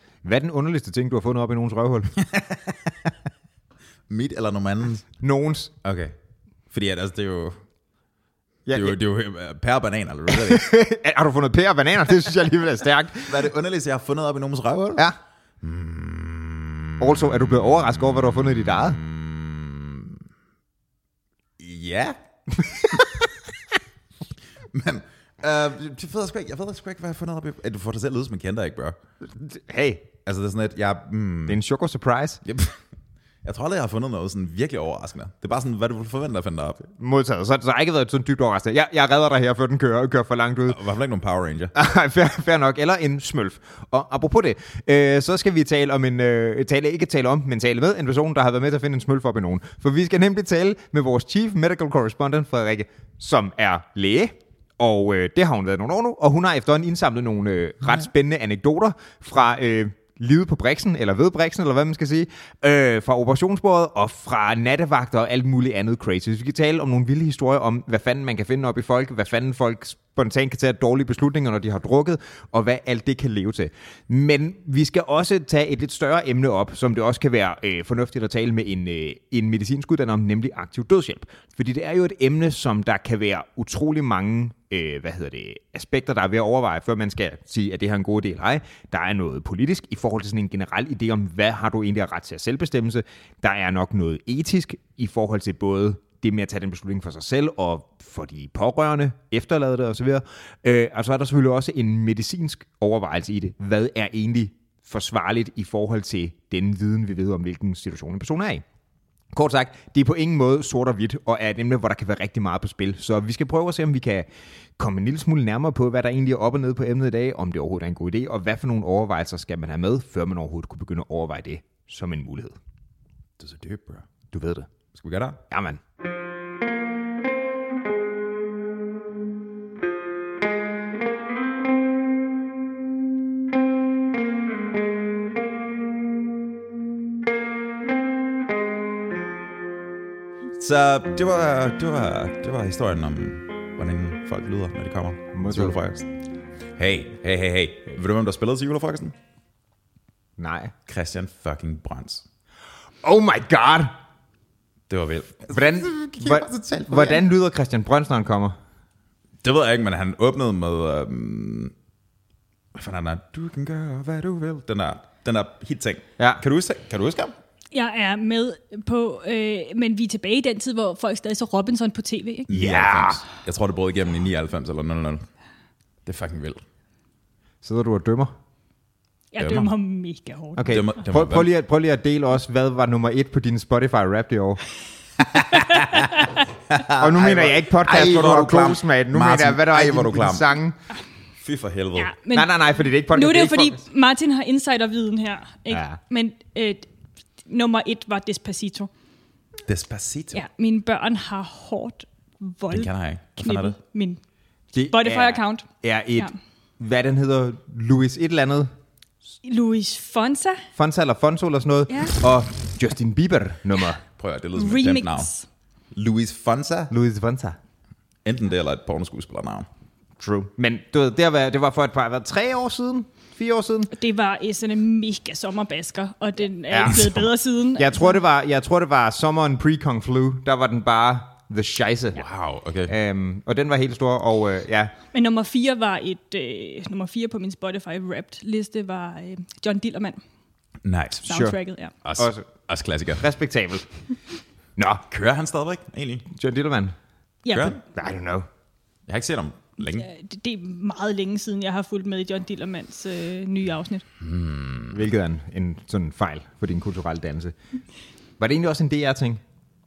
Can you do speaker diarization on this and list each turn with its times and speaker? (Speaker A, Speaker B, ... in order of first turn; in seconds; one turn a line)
Speaker A: 0.2-2.1
Speaker B: 2.2-3.1
Speaker B: 4.1-5.1
Speaker A: 5.2-5.7
Speaker B: 5.8-6.2
Speaker B: 6.7-7.6
Speaker A: 8.7-9.0
Speaker B: 8.7-10.7
Speaker A: 10.3-13.5
Speaker B: 13.3-15.1
Speaker B: 15.6-20.2
Speaker A: 17.0-19.0
Speaker B: 21.6-22.2
Speaker A: 22.6-23.0
Speaker B: 22.8-23.1
Speaker B: 24.7-29.0
Speaker A: 29.3-30.1
Speaker B: 30.2-31.6
Speaker A: 31.5-32.4
Speaker B: 32.5-32.8
Speaker B: 33.4-36.8
Speaker A: 36.9-40.8
Speaker B: 40.7-41.7
Speaker A: 41.7-108.6
Speaker A: 109.3-122.6
Speaker B: 123.4-124.1
Speaker A: 124.3-124.7
Speaker B: 124.9-125.4
Speaker A: 125.5-125.8
Speaker B: 140.6-146.1
Speaker A: 145.3-145.8
Speaker B: 146.8-149.1
Speaker A: 150.4-150.7
Speaker B: 150.9-152.2
Speaker A: 153.0-154.0
Speaker B: 154.9-157.2
Speaker A: 155.5-158.6
Speaker B: 159.4-161.7
Speaker B: 162.8-167.3
Speaker C: 167.7-172.5
Speaker A: 172.5-173.2
Speaker B: 172.5-175.2
Speaker B: 176.1-176.6
Speaker A: 177.6-178.3
Speaker C: 179.3-180.6
Speaker B: 179.4-179.7
Speaker A: 180.6-184.6
Speaker B: 180.7-181.5
Speaker B: 185.4-186.1
Speaker C: 185.5-186.4
Speaker B: 186.7-190.6
Speaker A: 187.0-190.8
Speaker B: 191.4-192.1
Speaker C: 192.0-196.9
Speaker A: 192.3-193.8
Speaker A: 195.7-196.0
Speaker C: 197.5-198.9
Speaker B: 199.7-200.4
Speaker C: 200.3-204.2
Speaker B: 202.7-203.8
Speaker A: 204.7-208.7
Speaker C: 204.9-205.7
Speaker C: 209.4-210.7
Speaker A: 210.8-214.0
Speaker C: 211.9-212.2
Speaker B: 214.2-215.3
Speaker C: 214.6-215.5
Speaker B: 215.9-216.9
Speaker A: 216.9-217.6
Speaker B: 218.2-219.7
Speaker A: 220.2-223.9
Speaker C: 223.9-228.2
Speaker A: 226.7-232.2
Speaker B: 232.2-232.9
Speaker A: 232.9-234.9
Speaker C: 235.1-240.2
Speaker B: 240.8-241.2
Speaker A: 241.2-241.6
Speaker C: 241.3-241.9
Speaker B: 242.0-243.2
Speaker A: 242.2-242.5
Speaker A: 243.2-243.9
Speaker A: 244.8-245.0
Speaker B: 245.1-246.3
Speaker A: 246.3-246.9
Speaker C: 247.4-247.8
Speaker B: 247.5-247.8
Speaker A: 247.9-248.5
Speaker B: 249.1-250.1
Speaker C: 249.9-254.0
Speaker B: 254.2-255.0
Speaker A: 254.9-257.5
Speaker A: 258.4-259.4